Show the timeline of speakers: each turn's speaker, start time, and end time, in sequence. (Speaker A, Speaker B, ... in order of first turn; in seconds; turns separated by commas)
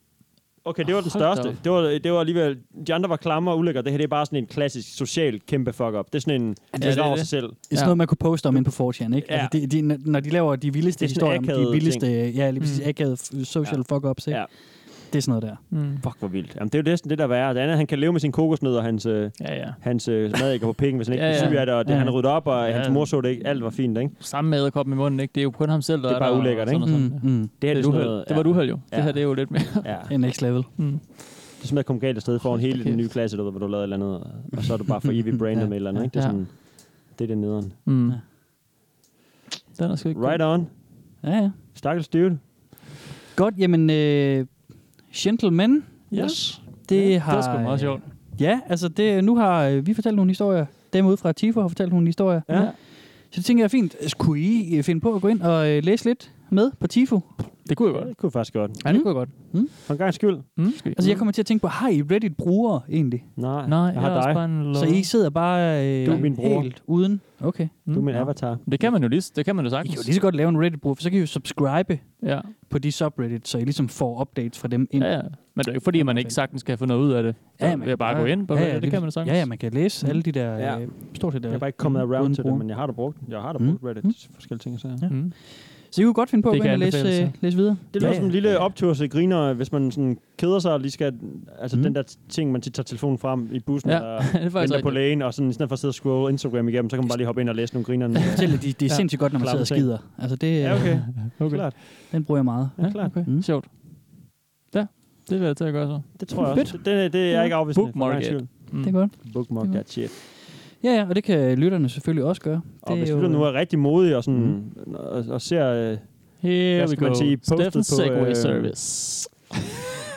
Speaker A: 0.6-7.7, Speaker B: 0.9-1.6, Speaker C: 6.7-15.6, Speaker B: 6.8-8.1, Speaker A: 9.2-9.6, Speaker A: 11.0-12.1, Speaker B: 12.6-12.9, Speaker A: 13.6-14.5, Speaker B: 15.7-16.1, Speaker A: 16.0-24.1, Speaker B: 19.4-20.3, Speaker B: 21.1-21.9, Speaker C: 21.3-22.3, Speaker B: 22.5-31.1, Speaker A: 26.1-30.2, Speaker C: 26.8-27.5, Speaker C: 29.8-30.7, Speaker A: 31.5-37.9, Speaker B: 32.5-33.1, Speaker C: 35.5-36.1, Speaker B: 36.1-36.5, Speaker B: 37.9-38.2, Speaker B: 39.8-40.7, Speaker A: 40.1-41.2, Speaker C: 41.2-41.6, Speaker A: 41.8-42.4, Speaker C: 43.4-46.2, Speaker B: 46.1-48.1, Speaker A: 46.1-46.5, Speaker C: 46.9-57.4, Speaker A: 52.5-52.7, Speaker B: 52.5-52.8, Speaker B: 57.6-59.9, Speaker A: 57.9-60.7, Speaker C: 58.9-63.3, Speaker B: 60.6-61.3, Speaker A: 63.4-64.5, Speaker B: 63.6-65.1, Speaker C: 64.7-68.9, Speaker A: 66.0-66.7, Speaker B: 67.8-70.1, Speaker A: 67.9-68.9, Speaker C: 69.8-76.9, Speaker B: 72.2-72.5, Speaker B: 75.0-80.2, Speaker C: 77.6-88.7, Speaker A: 80.6-85.1, Speaker B: 85.1-85.3, Speaker B: 86.5-88.7, Speaker A: 87.9-103.3, Speaker C: 91.7-92.0, Speaker B: 93.8-95.0, Speaker B: 98.2-99.2, Speaker C: 98.3-101.4, Speaker B: 100.8-109.1, Speaker C: 102.1-103.5, Speaker A: 106.2-110.1, Speaker C: 106.5-107.5, Speaker C: 108.8-113.7, Speaker A: 112.8-118.7, Speaker B: 116.4-119.5